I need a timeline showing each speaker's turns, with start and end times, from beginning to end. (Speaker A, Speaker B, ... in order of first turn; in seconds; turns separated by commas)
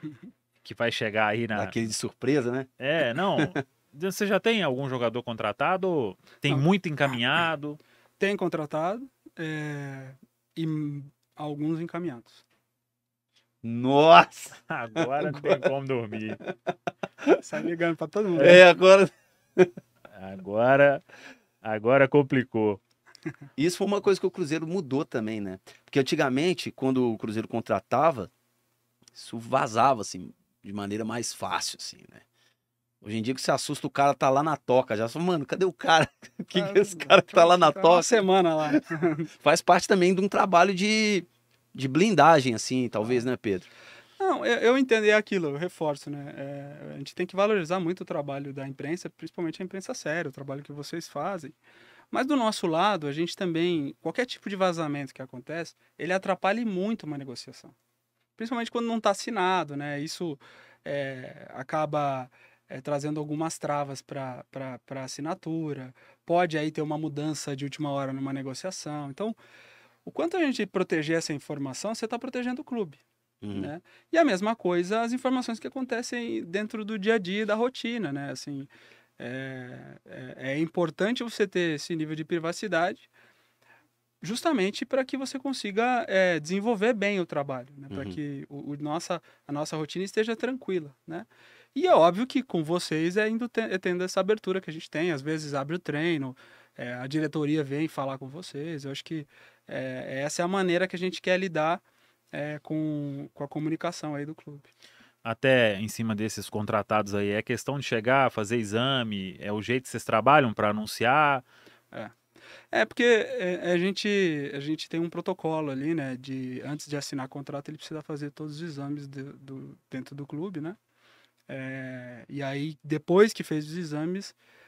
Speaker A: 0.6-1.9, Speaker B: 1.6-2.8, Speaker A: 2.8-7.8, Speaker C: 8.2-12.4, Speaker B: 13.6-15.7, Speaker A: 14.7-16.4, Speaker C: 17.4-18.6, Speaker B: 18.4-19.7, Speaker A: 20.1-21.0, Speaker A: 21.6-22.8, Speaker B: 23.6-28.3, Speaker B: 29.1-32.2, Speaker B: 33.0-38.8, Speaker C: 36.5-39.3, Speaker B: 39.4-43.7, Speaker C: 44.2-51.6, Speaker C: 52.1-57.8, Speaker C: 58.4-69.4, Speaker C: 70.0-73.0, Speaker B: 73.4-73.7, Speaker C: 73.5-83.1, Speaker C: 84.2-104.7, Speaker B: 87.9-88.2, Speaker A: 105.2-111.5, Speaker C: 112.7-120.8, Speaker C: 121.5-124.4